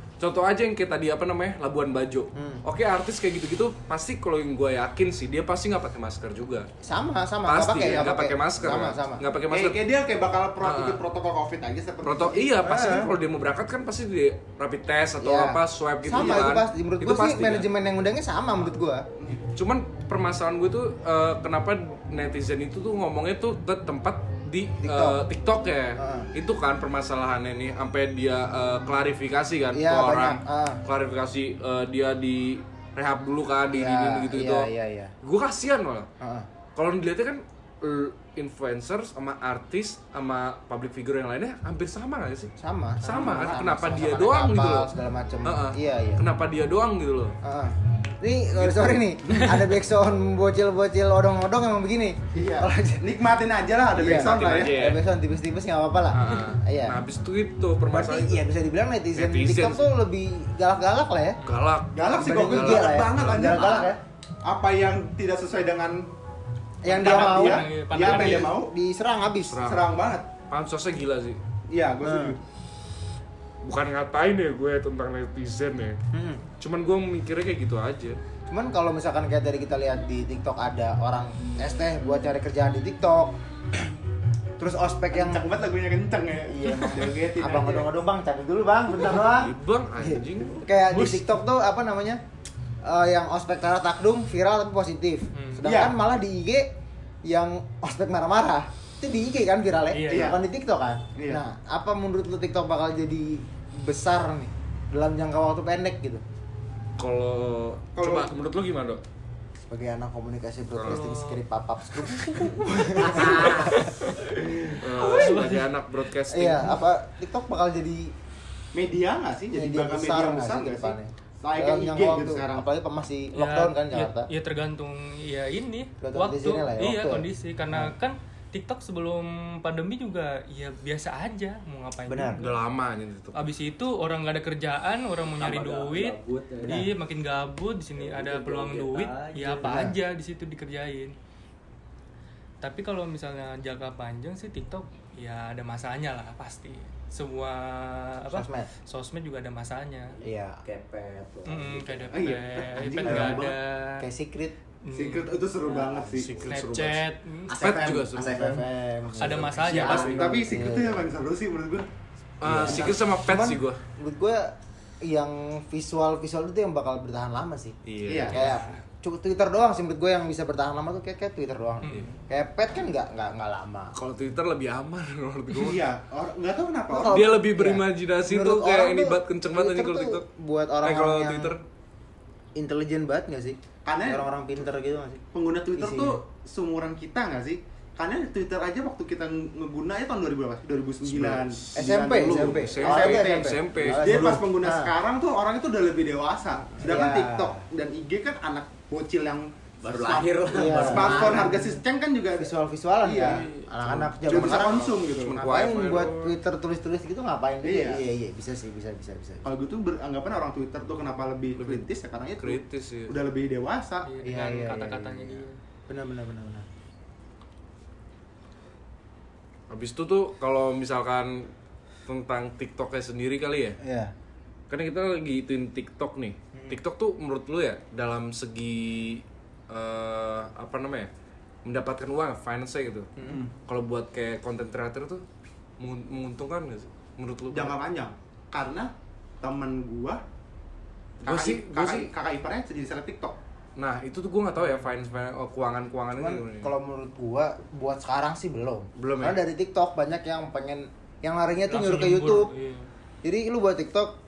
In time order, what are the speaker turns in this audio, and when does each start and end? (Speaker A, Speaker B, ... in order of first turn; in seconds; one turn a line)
Speaker A: 0.2-6.7
Speaker B: 2.4-2.6
Speaker B: 6.8-9.2
Speaker A: 7.5-9.8
Speaker C: 7.8-8.1
Speaker C: 9.5-12.5
Speaker A: 10.6-11.0
Speaker A: 12.0-17.7
Speaker B: 12.6-13.1
Speaker B: 15.2-19.1
Speaker C: 16.1-16.4
Speaker A: 19.6-34.7
Speaker B: 24.8-25.2
Speaker B: 26.0-26.3
Speaker B: 29.7-30.8
Speaker B: 33.7-35.1
Speaker A: 35.2-36.1
Speaker B: 36.2-36.5
Speaker A: 36.8-42.5
Speaker B: 42.6-46.2
Speaker A: 43.0-44.9
Speaker C: 43.0-43.6
Speaker A: 45.4-47.4
Speaker B: 47.4-53.1
Speaker A: 48.6-49.7
Speaker C: 52.3-54.8
Speaker A: 54.0-55.0
Speaker B: 54.0-57.0
Speaker A: 56.1-58.4
Speaker B: 57.9-61.4
Speaker A: 59.1-59.9
Speaker A: 61.4-63.7
Speaker C: 61.9-66.1
Speaker B: 62.1-64.0
Speaker C: 66.8-68.7
Speaker B: 66.8-69.6
Speaker D: 67.0-68.5
Speaker A: 69.5-71.4
Speaker C: 69.7-70.3
Speaker C: 71.7-72.4
Speaker B: 72.0-72.4
Speaker A: 73.6-76.0
Speaker B: 76.1-76.4
Speaker A: 76.6-78.2
Speaker B: 78.5-83.9
Speaker B: 84.6-85.4
Speaker C: 85.1-87.9
Speaker B: 86.5-92.2
Speaker A: 89.0-90.7
Speaker D: 90.9-91.3
Speaker B: 92.8-96.7
Speaker D: 95.3-95.7
Speaker C: 95.6-96.0
Speaker B: 97.3-106.2
Speaker D: 99.9-100.4
Speaker C: 100.1-100.4
Speaker C: 101.2-101.4
Speaker A: 107.0-109.0
Speaker C: 108.0-108.3
Speaker B: 109.7-113.8
Speaker A: 110.8-111.1
Speaker D: 110.8-111.4
Speaker D: 113.0-115.7
Speaker E: 113.2-113.7
Speaker A: 113.2-114.2
Speaker B: 114.4-115.5
Speaker A: 114.8-116.8
Speaker B: 116.3-118.1
Speaker C: 118.7-122.6
Speaker B: 119.5-124.3
Speaker D: 123.3-132.5
Speaker B: 126.0-127.9
Speaker B: 132.1-132.4
Speaker A: 132.4-133.5
Speaker D: 133.3-141.2
Speaker E: 135.4-136.9
Speaker E: 138.0-139.9
Speaker B: 139.6-140.0
Speaker D: 142.6-150.2
Speaker B: 148.3-148.7
Speaker E: 150.2-152.3
Speaker B: 150.2-150.6
Speaker D: 151.5-154.1
Speaker C: 152.1-153.6
Speaker B: 153.1-154.6
Speaker D: 154.8-155.3
Speaker C: 154.9-156.3
Speaker A: 156.1-158.6
Speaker D: 156.5-157.6
Speaker E: 157.5-158.7
Speaker B: 158.1-159.7
Speaker D: 159.2-160.2
Speaker A: 159.7-160.3
Speaker E: 159.7-160.6
Speaker C: 159.8-161.9
Speaker B: 160.4-161.1
Speaker A: 162.4-163.8
Speaker B: 162.4-164.5
Speaker B: 165.0-167.8
Speaker A: 167.9-168.8
Speaker C: 168.1-168.4
Speaker B: 168.3-173.9
Speaker D: 171.8-172.2
Speaker A: 173.9-175.9
Speaker C: 175.5-177.3
Speaker B: 176.9-181.6
Speaker A: 177.1-180.2
Speaker A: 180.8-181.6
Speaker B: 182.6-185.2
Speaker C: 183.8-184.2
Speaker C: 185.3-202.5
Speaker B: 185.8-186.2
Speaker A: 191.0-194.4
Speaker B: 191.8-194.9
Speaker B: 196.8-197.6
Speaker E: 199.8-201.7
Speaker B: 200.5-201.4
Speaker B: 202.4-209.5
Speaker A: 203.1-206.3
Speaker C: 203.1-203.4
Speaker C: 204.2-205.6
Speaker C: 207.6-208.0
Speaker C: 209.4-214.1
Speaker A: 211.6-211.9
Speaker A: 212.4-213.2
Speaker D: 214.1-215.6
Speaker B: 214.2-216.7
Speaker A: 219.7-221.5
Speaker A: 222.1-223.8
Speaker B: 223.8-224.1
Speaker A: 224.7-231.1
Speaker A: 231.7-233.1
Speaker B: 233.2-233.5
Speaker A: 233.7-235.2
Speaker A: 235.8-237.8
Speaker C: 237.5-240.2
Speaker C: 241.2-243.4
Speaker A: 241.3-242.1
Speaker A: 243.8-246.7
Speaker B: 246.2-252.5
Speaker A: 249.0-249.4
Speaker D: 251.7-252.9
Speaker B: 253.2-254.1